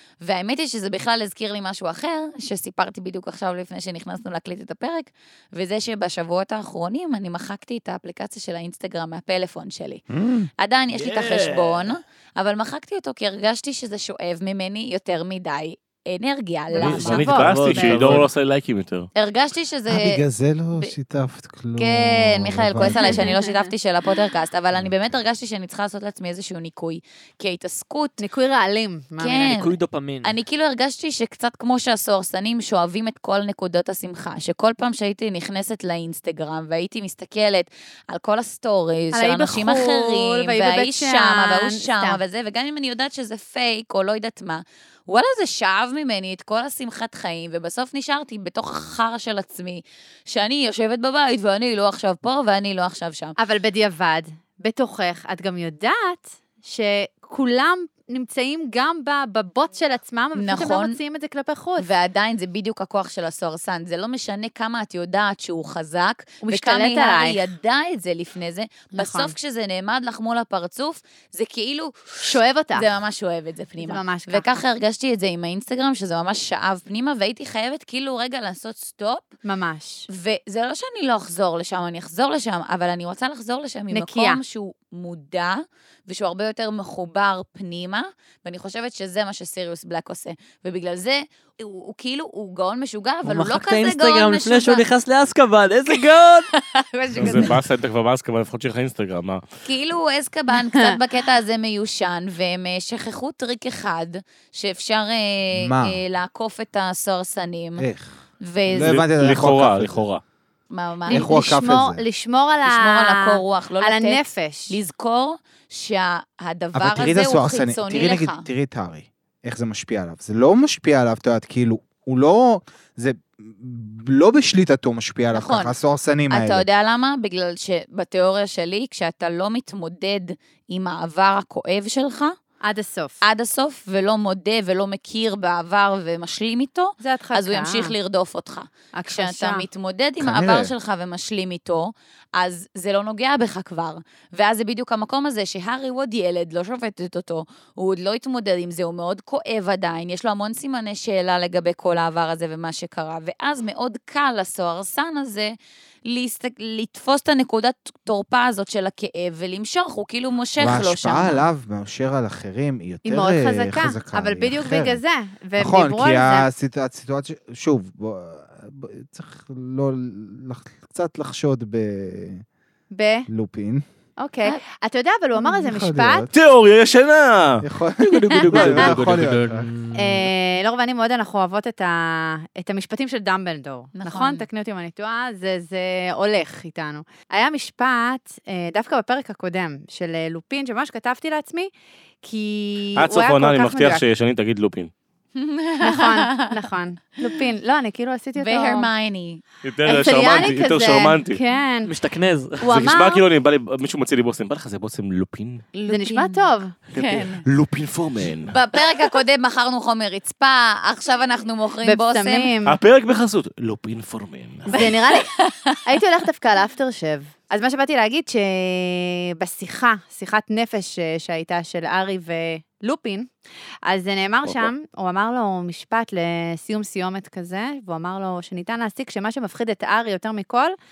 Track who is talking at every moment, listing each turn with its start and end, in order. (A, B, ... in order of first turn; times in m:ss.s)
0:00.2-0:10.0 A
0:10.1-0:10.5 B
0:10.6-0:17.3 A
0:10.9-0:11.9 C
0:16.7-0:18.3 D
0:16.8-0:19.1 E
0:17.2-0:18.3 C
0:19.2-0:20.2 A
0:19.9-0:23.3 B
0:21.8-0:28.2 A
0:22.8-0:23.7 D
0:28.2-0:29.6 D
0:29.2-0:53.3 A
0:29.4-0:30.4 C
0:39.1-0:42.2 D
0:53.4-1:01.9 D
1:00.3-1:01.0 A
1:01.8-1:19.3 A
1:06.4-1:07.4 D
1:08.9-1:09.3 D
1:12.2-1:12.9 D
1:13.8-1:14.5 D
1:19.4-1:20.1 D
1:20.1-1:34.8 A
1:23.9-1:24.4 D
1:33.2-1:36.5 C
1:36.5-1:37.6 A
1:37.2-1:39.4 E
1:39.6-1:47.9 A
1:40.5-1:41.0 D
1:45.5-1:46.0 B
1:47.8-1:48.1 B
1:48.4-1:49.0 A
1:48.6-1:50.0 B
1:48.8-1:50.2 E
1:50.7-1:51.5 A
1:51.1-1:54.8 D
1:51.1-1:52.0 B
1:52.6-1:58.4 A
1:56.7-2:06.6 B
2:05.3-2:05.7 A
2:06.3-2:12.4 A
2:12.6-2:13.2 D
2:13.2-2:41.4 A
2:17.0-2:17.9 D
2:18.9-2:19.7 D
2:20.2-2:20.7 B
2:40.6-2:45.0 B
2:43.0-2:46.5 D
2:45.6-2:52.4 B
2:52.9-2:53.3 D
2:53.3-2:53.8 B
2:54.2-2:56.3 D
2:55.4-2:56.3 B
2:56.3-2:57.6 E
2:57.6-2:59.7 B
2:58.1-3:00.3 C
2:58.3-2:58.8 D
2:59.9-3:11.7 D
3:03.9-3:04.5 A
3:12.2-3:14.0 D
3:13.0-3:14.9 E
3:15.4-3:16.6 A
3:15.8-3:18.9 D
3:18.4-3:19.4 A
3:19.6-3:21.4 E
3:19.8-3:21.9 D
3:21.8-3:22.7 C
3:22.6-3:23.2 D
3:22.6-3:25.6 E
3:25.7-3:27.4 A
3:25.9-3:26.7 D
3:26.9-3:28.6 E
3:28.5-3:32.5 A
3:31.8-3:32.8 D
3:32.6-3:34.9 E
3:34.7-3:35.3 D
3:34.7-3:35.8 A
3:35.8-3:43.3 D
3:43.8-3:50.7 D
3:44.4-3:44.7 E